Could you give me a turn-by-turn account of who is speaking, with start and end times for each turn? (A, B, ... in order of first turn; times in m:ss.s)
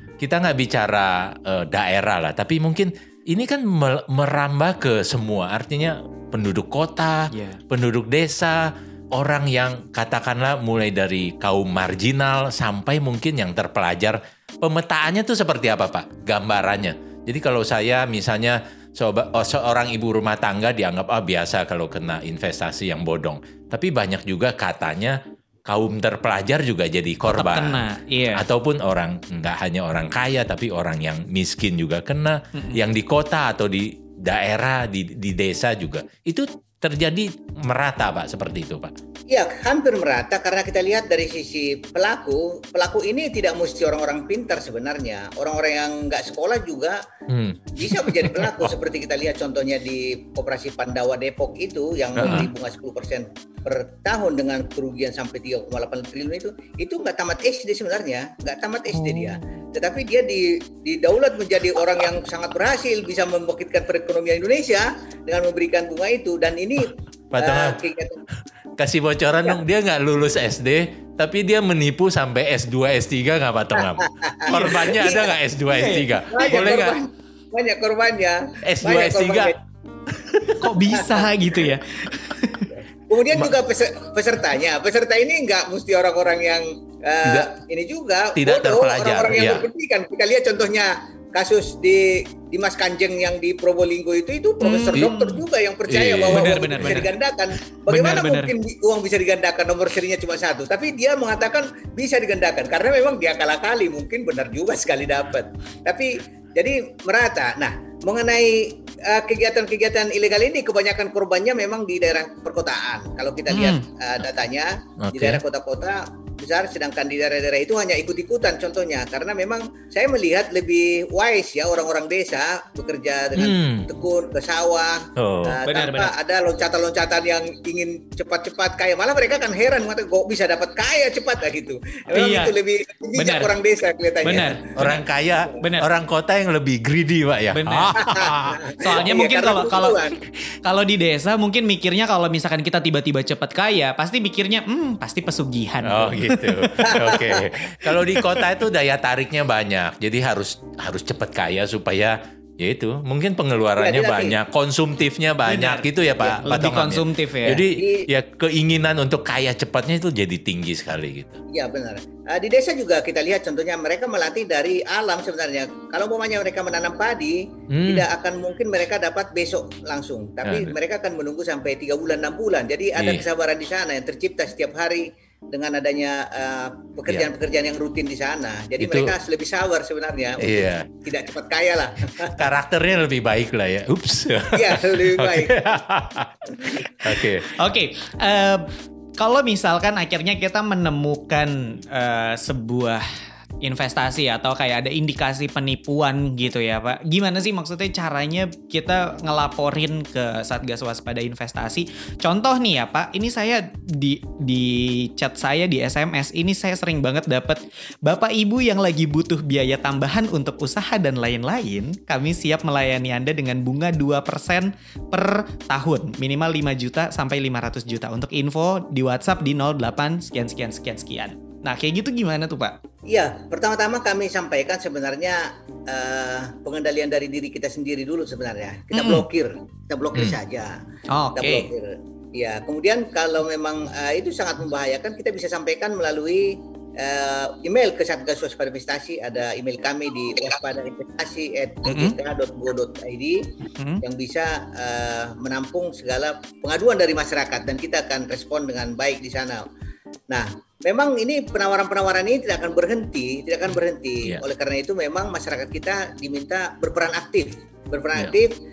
0:00.2-0:27.8 A
0:07.3-0:07.6 B
0:27.3-0:28.4 B
0:28.3-0:38.9 A
0:32.5-0:32.8 B
0:39.3-0:47.0 C
0:47.3-0:48.7 A
0:47.7-1:08.2 C
0:52.2-0:52.5 A
0:59.0-0:59.4 B
1:07.3-1:07.8 A
1:08.8-1:17.0 A
1:13.8-1:15.4 C
1:14.5-1:15.0 B
1:15.7-1:16.7 B
1:16.3-1:19.6 C
1:18.6-1:19.5 A
1:20.2-1:20.7 A
1:20.5-1:21.3 C
1:20.6-1:22.7 B
1:23.1-2:14.6 C
1:27.2-1:27.5 A
1:28.4-1:29.7 A
1:34.6-1:35.4 B
1:35.9-1:37.0 A
1:36.3-1:37.1 B
1:37.9-1:38.5 B
1:53.5-1:53.8 B
1:55.0-1:55.4 A
2:03.3-2:03.9 A
2:05.2-2:05.6 A
2:05.6-2:06.1 B
2:12.1-2:12.5 B
2:13.2-2:13.5 B
2:14.2-2:14.9 B
2:14.8-2:18.6 A
2:15.6-2:15.9 B
2:17.5-2:20.0 B
2:18.0-2:20.2 C
2:20.6-2:27.2 B
2:25.8-2:41.4 A
2:26.8-2:27.5 C
2:27.8-2:28.4 B
2:33.8-2:34.4 C
2:35.4-2:35.8 B
2:36.4-2:37.6 B
2:37.7-2:38.1 C
2:41.5-3:02.5 C
2:47.7-2:48.1 A
2:50.4-2:50.8 A
2:53.0-2:53.2 A
2:58.8-2:59.2 A
3:00.4-3:00.9 A
3:02.2-3:07.6 A
3:04.5-3:05.6 C
3:07.1-3:13.0 B
3:13.6-3:42.8 B
3:43.1-3:50.8 C
3:48.9-3:49.2 B
3:51.1-3:51.7 B
3:51.3-4:03.5 C
4:01.9-4:02.2 B
4:04.0-4:09.6 C
4:10.3-4:18.6 C